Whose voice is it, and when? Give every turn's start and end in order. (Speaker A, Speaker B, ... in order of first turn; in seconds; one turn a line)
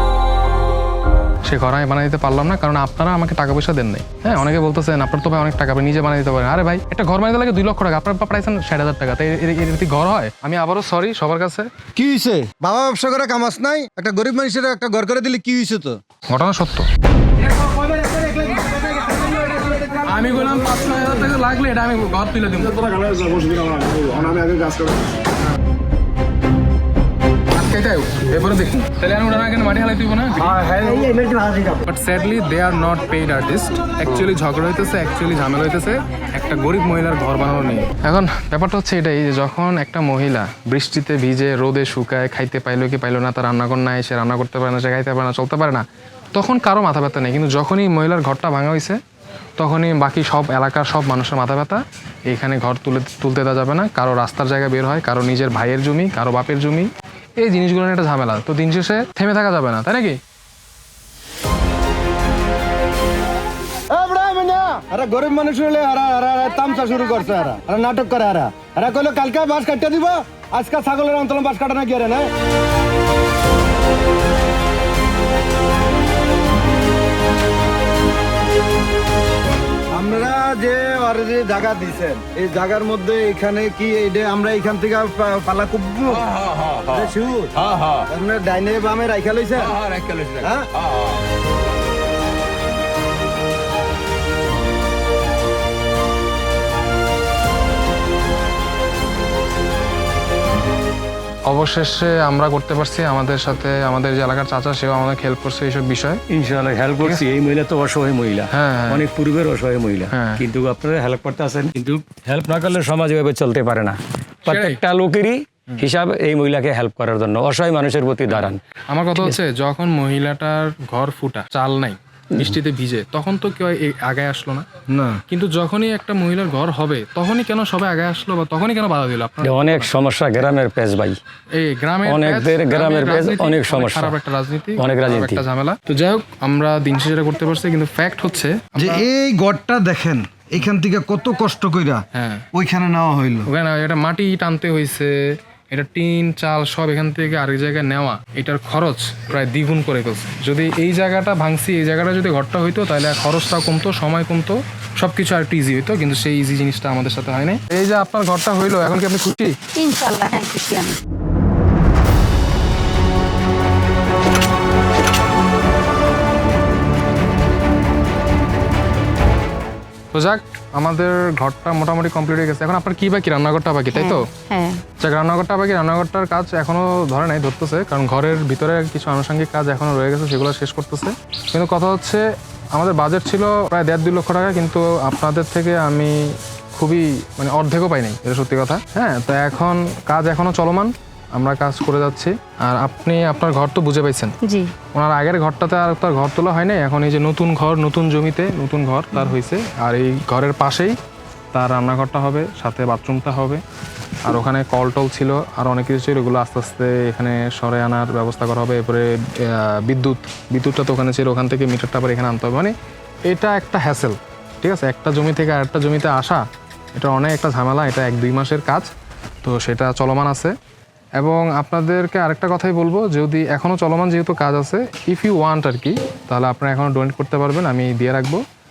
Speaker A: 1.5-11.7
Speaker B: 12.0-16.0
Speaker A: 16.3-16.9
Speaker A: 19.9-23.1
Speaker A: 23.9-24.7
Speaker A: 27.5-30.6
Speaker B: 30.5-31.8
Speaker A: 31.8-49.0
Speaker A: 49.6-60.2
Speaker B: 63.9-72.3
Speaker B: 79.9-87.5
Speaker C: 86.4-87.0
Speaker C: 87.6-88.0
Speaker B: 88.1-89.8
Speaker C: 89.8-90.4
Speaker B: 90.4-90.7
Speaker A: 101.5-106.2
Speaker C: 106.3-118.6
Speaker A: 107.0-107.3
Speaker A: 108.5-109.1
Speaker A: 110.1-110.4
Speaker A: 114.5-114.8
Speaker A: 118.3-129.9
Speaker C: 129.4-131.2
Speaker A: 131.5-139.1
Speaker C: 132.1-134.2
Speaker C: 134.8-135.4
Speaker B: 138.8-143.5
Speaker A: 142.2-142.5
Speaker A: 143.5-145.2
Speaker A: 145.7-159.6
Speaker D: 159.8-161.0
Speaker A: 170.1-174.2
Speaker D: 173.9-174.8
Speaker A: 175.0-194.4
Speaker D: 194.4-194.7
Speaker A: 194.9-201.0
Speaker A: 201.5-203.6
Speaker A: 204.2-212.8
Speaker A: 213.3-218.9
Speaker A: 219.4-220.5
Speaker A: 221.2-228.4